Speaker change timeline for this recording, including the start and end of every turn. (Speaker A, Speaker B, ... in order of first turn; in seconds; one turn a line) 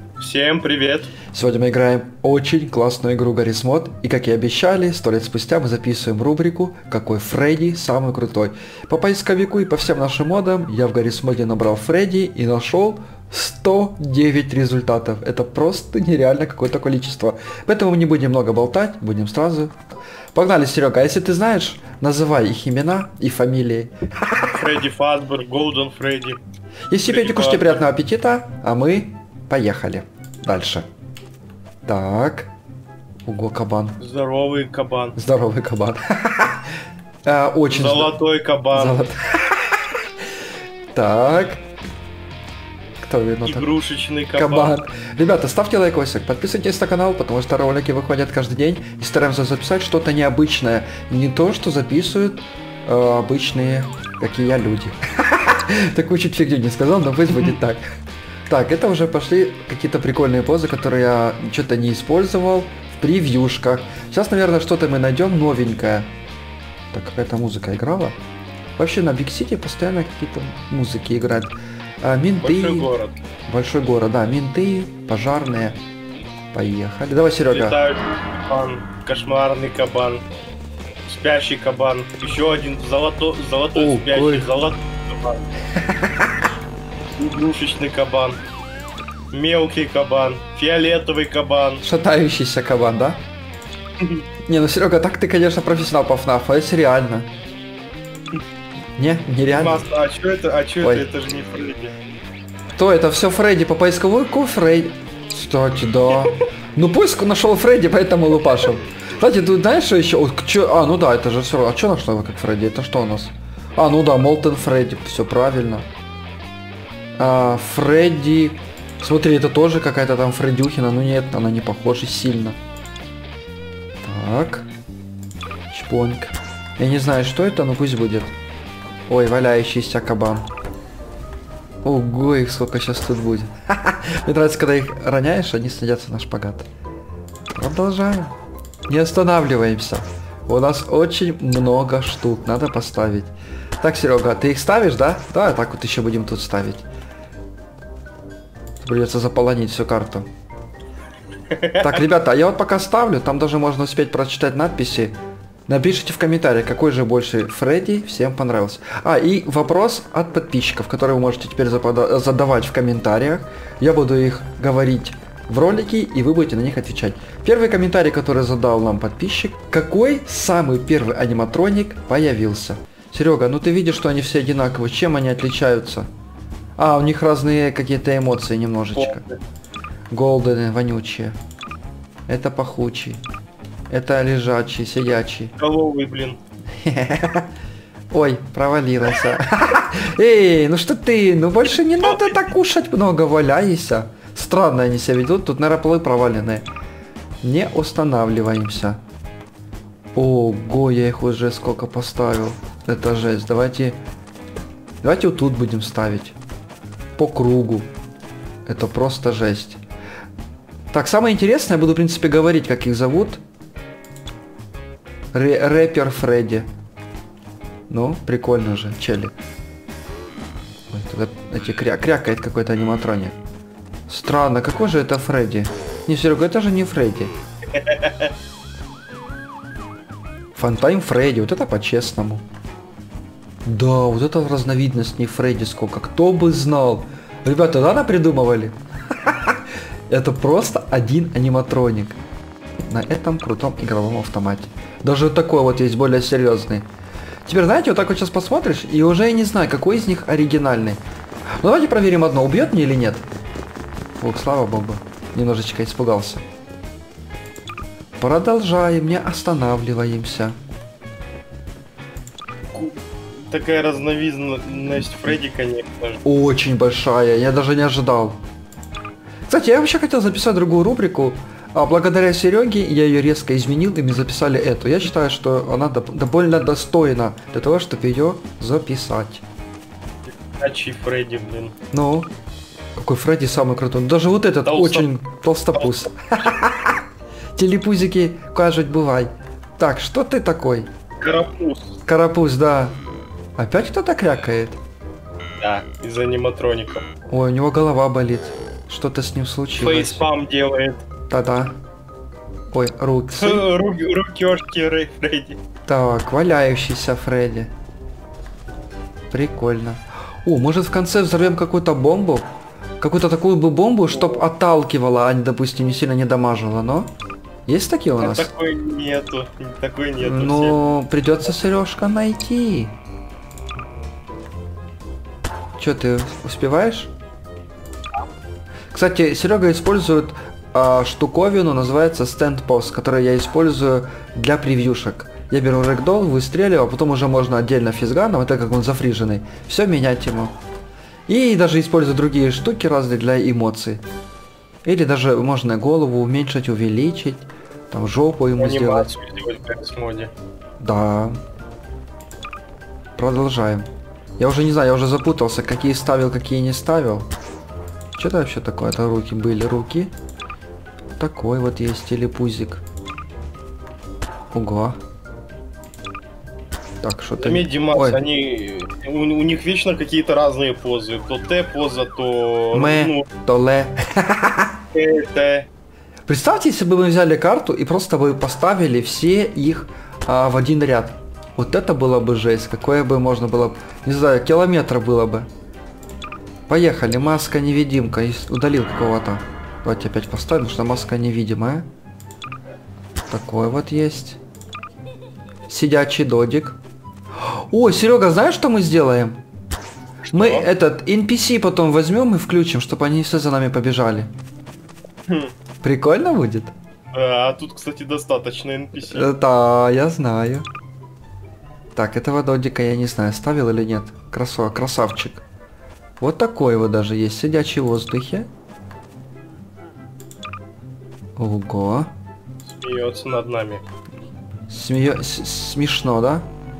Speaker A: 0.2-1.1
Speaker B: 1.3-19.8
Speaker B: 20.3-24.5
Speaker A: 24.5-26.4
Speaker B: 26.9-30.9
Speaker A: 27.1-27.8
Speaker B: 31.9-32.5
Speaker B: 33.2-34.0
Speaker A: 34.0-35.2
Speaker B: 35.2-36.7
Speaker B: 37.2-38.1
Speaker A: 37.7-39.0
Speaker B: 38.7-40.0
Speaker B: 40.9-41.6
Speaker B: 43.0-43.7
Speaker A: 43.5-44.8
Speaker B: 44.3-57.8
Speaker B: 58.5-66.1
Speaker B: 66.9-68.2
Speaker B: 68.8-72.9
Speaker A: 72.4-73.2
Speaker B: 73.5-75.8
Speaker B: 76.5-77.8
Speaker A: 77.5-80.2
Speaker A: 81.1-85.5
Speaker B: 83.8-84.5
Speaker B: 85.8-86.3
Speaker A: 87.2-88.4
Speaker A: 89.3-91.8
Speaker B: 91.8-93.2
Speaker A: 94.0-94.2
Speaker B: 94.5-97.3
Speaker B: 99.0-99.9
Speaker A: 99.5-101.9
Speaker B: 100.8-101.1
Speaker B: 102.8-115.9
Speaker B: 117.2-122.6
Speaker B: 124.0-124.7
Speaker B: 125.7-128.3
Speaker B: 129.1-130.5
Speaker B: 131.8-136.7
Speaker B: 137.5-146.8
Speaker B: 148.8-150.3
Speaker A: 151.5-152.0
Speaker B: 151.8-176.1
Speaker B: 176.8-179.2
Speaker A: 178.9-179.4
Speaker B: 180.1-181.4
Speaker B: 182.3-183.2
Speaker B: 183.9-185.5
Speaker A: 185.6-186.4
Speaker B: 186.8-187.5
Speaker B: 188.1-196.7
Speaker A: 192.0-192.4
Speaker B: 197.4-199.0
Speaker B: 200.1-204.0
Speaker B: 205.0-206.4
Speaker B: 207.2-207.9
Speaker B: 208.7-209.8
Speaker B: 210.9-213.4
Speaker B: 215.3-216.7
Speaker B: 217.9-219.3
Speaker B: 220.9-223.4
Speaker B: 224.1-227.3
Speaker A: 227.7-228.3
Speaker B: 230.5-232.4
Speaker B: 233.6-242.2
Speaker B: 242.8-246.8
Speaker B: 247.4-251.0
Speaker B: 251.6-253.2
Speaker B: 254.2-256.4
Speaker B: 258.2-260.6
Speaker A: 262.7-266.2
Speaker B: 266.2-268.4
Speaker B: 269.5-279.4
Speaker A: 280.2-281.7
Speaker B: 281.9-282.3
Speaker B: 282.9-287.0
Speaker A: 284.6-285.1
Speaker A: 285.8-286.1
Speaker B: 287.6-290.9
Speaker A: 291.2-291.9
Speaker B: 292.1-293.0
Speaker B: 293.6-294.8
Speaker A: 295.6-297.1
Speaker B: 297.3-300.2
Speaker A: 299.8-301.0
Speaker B: 301.3-301.8
Speaker B: 302.7-303.7
Speaker A: 303.4-305.6
Speaker B: 305.9-307.7
Speaker B: 309.3-317.1
Speaker A: 314.1-314.4
Speaker B: 317.7-318.5
Speaker A: 318.2-320.8
Speaker B: 320.2-322.9
Speaker B: 325.8-327.1
Speaker B: 328.9-340.6
Speaker B: 341.3-344.0
Speaker B: 344.8-349.1
Speaker A: 348.6-350.3
Speaker B: 350.8-351.4
Speaker B: 353.2-357.3
Speaker B: 358.1-360.1
Speaker B: 361.2-362.8
Speaker B: 364.5-365.0
Speaker B: 367.0-368.2
Speaker A: 367.4-373.3
Speaker B: 372.7-374.7
Speaker A: 374.9-375.7
Speaker B: 376.3-385.5
Speaker B: 386.7-391.9
Speaker B: 393.3-394.4
Speaker B: 395.7-396.8
Speaker B: 397.4-399.4
Speaker A: 400.3-400.7
Speaker B: 400.3-404.3
Speaker A: 405.3-405.5
Speaker B: 405.8-406.7
Speaker A: 407.1-409.3
Speaker B: 409.0-410.7
Speaker B: 411.9-415.4
Speaker B: 416.2-418.5
Speaker B: 421.4-422.1
Speaker A: 422.7-423.8
Speaker B: 424.7-426.5